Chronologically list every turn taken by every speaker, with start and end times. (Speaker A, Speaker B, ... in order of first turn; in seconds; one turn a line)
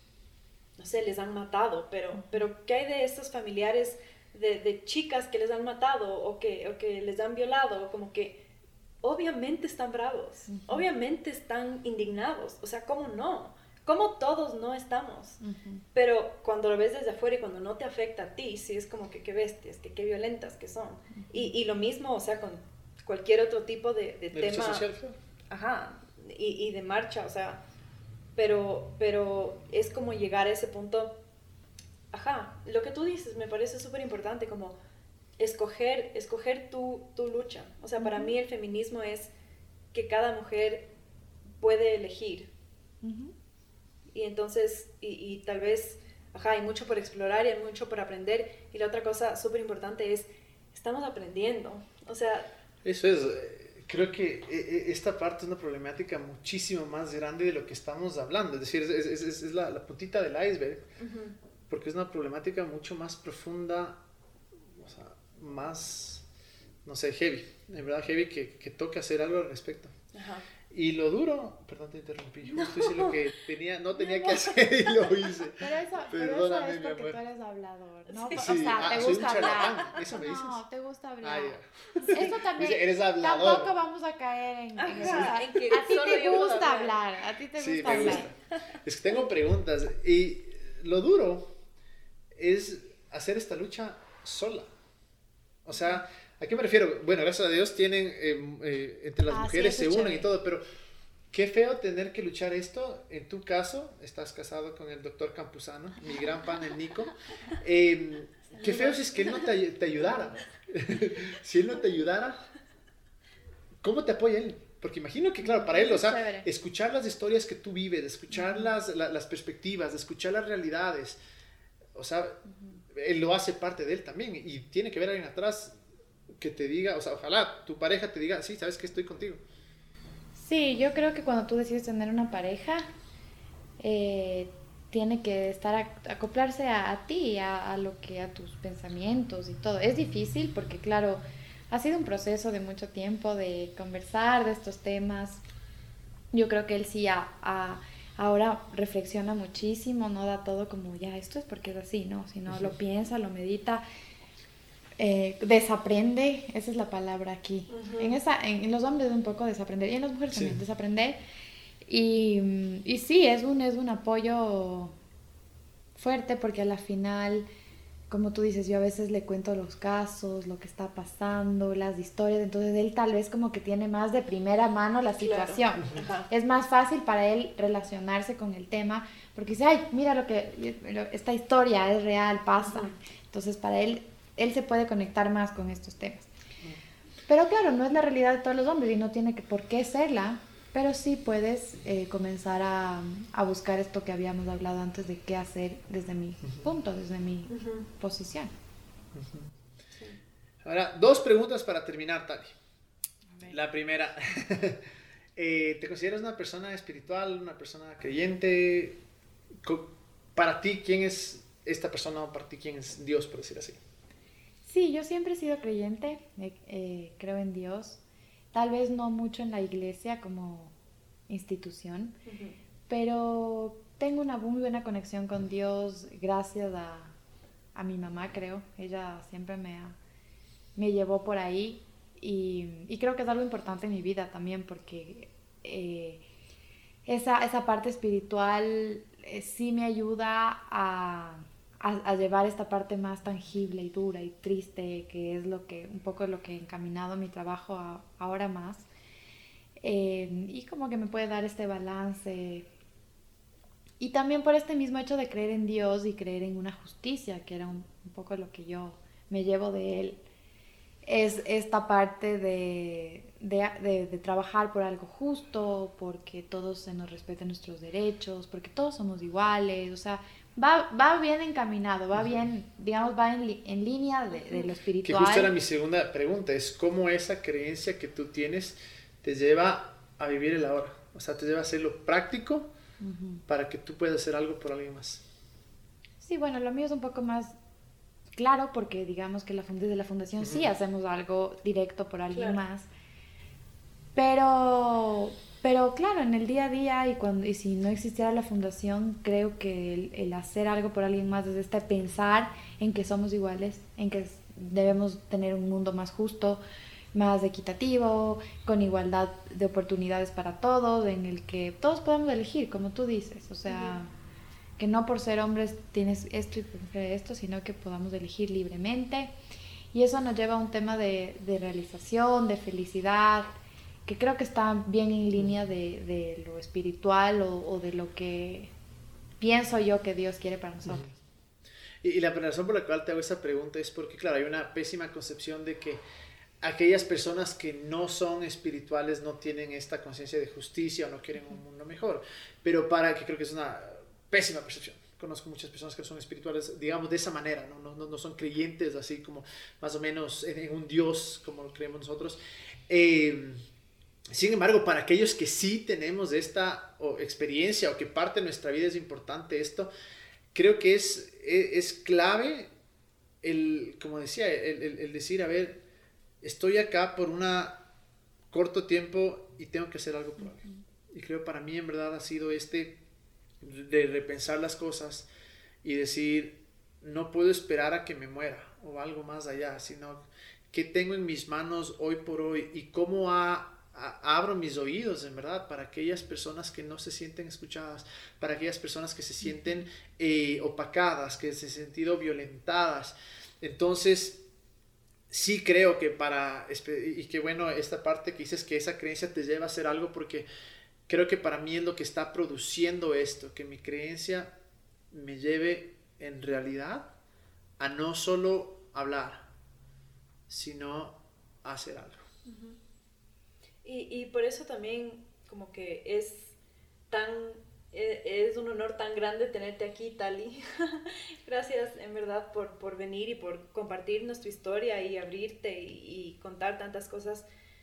Speaker A: 0.8-8.4
Speaker B: 2.2-2.5
Speaker A: 9.0-15.4
Speaker B: 10.5-10.9
Speaker B: 15.4-15.8
Speaker A: 15.9-24.9
Speaker B: 21.2-21.5
Speaker C: 24.3-25.2
Speaker A: 25.5-27.6
Speaker A: 28.4-31.2
Speaker A: 32.1-34.8
Speaker A: 35.4-39.3
Speaker B: 38.0-38.3
Speaker A: 39.9-40.9
Speaker A: 41.6-42.5
Speaker B: 43.0-43.3
Speaker A: 44.1-52.5
Speaker C: 52.8-60.9
Speaker A: 61.0-61.4
Speaker C: 61.7-64.0
Speaker C: 64.8-66.2
Speaker C: 66.8-69.9
Speaker A: 70.1-70.5
Speaker C: 70.7-77.2
Speaker A: 72.5-73.2
Speaker A: 74.0-75.3
Speaker B: 75.6-88.3
Speaker A: 78.1-79.9
Speaker C: 78.3-80.6
Speaker C: 81.2-83.7
Speaker A: 84.8-87.0
Speaker C: 85.0-85.3
Speaker C: 87.6-91.5
Speaker A: 87.9-88.3
Speaker C: 92.3-94.7
Speaker C: 95.7-100.6
Speaker B: 99.3-100.3
Speaker C: 101.3-112.4
Speaker B: 108.6-109.0
Speaker C: 113.8-121.2
Speaker B: 115.4-116.5
Speaker B: 118.3-118.7
Speaker C: 122.0-122.4
Speaker C: 122.9-125.8
Speaker C: 126.4-129.4
Speaker B: 130.3-132.8
Speaker B: 133.8-145.4
Speaker B: 146.3-153.8
Speaker B: 155.0-161.2
Speaker A: 157.7-158.2
Speaker C: 160.3-160.6
Speaker B: 161.9-164.9
Speaker B: 165.9-167.5
Speaker B: 168.1-186.3
Speaker A: 175.2-176.3
Speaker A: 182.6-182.9
Speaker B: 187.3-198.5
Speaker A: 197.5-197.9
Speaker C: 199.1-199.5
Speaker C: 200.6-202.6
Speaker B: 203.3-203.6
Speaker C: 203.5-204.8
Speaker C: 205.4-209.0
Speaker C: 209.6-213.8
Speaker B: 214.7-218.0
Speaker B: 218.5-220.8
Speaker B: 221.3-222.2
Speaker A: 222.2-222.6
Speaker B: 222.9-227.2
Speaker B: 227.8-230.0
Speaker B: 230.8-236.2
Speaker B: 237.1-248.9
Speaker B: 249.8-252.7
Speaker B: 254.0-260.2
Speaker B: 261.0-275.5
Speaker A: 274.4-274.7
Speaker C: 275.0-282.7
Speaker B: 283.0-283.4
Speaker C: 283.5-285.2
Speaker B: 286.2-287.6
Speaker B: 288.4-292.9
Speaker C: 290.4-290.7
Speaker A: 292.3-292.6
Speaker B: 294.1-306.6
Speaker B: 307.1-314.1
Speaker A: 313.7-314.0
Speaker B: 314.8-319.3
Speaker B: 319.9-323.5
Speaker B: 324.1-328.7
Speaker B: 329.4-331.2
Speaker C: 332.0-336.0
Speaker C: 336.6-353.6
Speaker C: 354.3-359.9
Speaker C: 360.5-362.7
Speaker C: 363.4-365.8
Speaker C: 366.4-367.8
Speaker C: 368.5-373.0
Speaker C: 373.6-375.3
Speaker C: 375.8-394.4
Speaker B: 389.4-389.8
Speaker C: 395.3-400.5
Speaker C: 401.1-404.5
Speaker C: 405.1-407.1
Speaker C: 407.8-409.5
Speaker C: 410.5-412.2
Speaker A: 412.5-412.8
Speaker A: 413.8-416.6
Speaker A: 417.1-427.5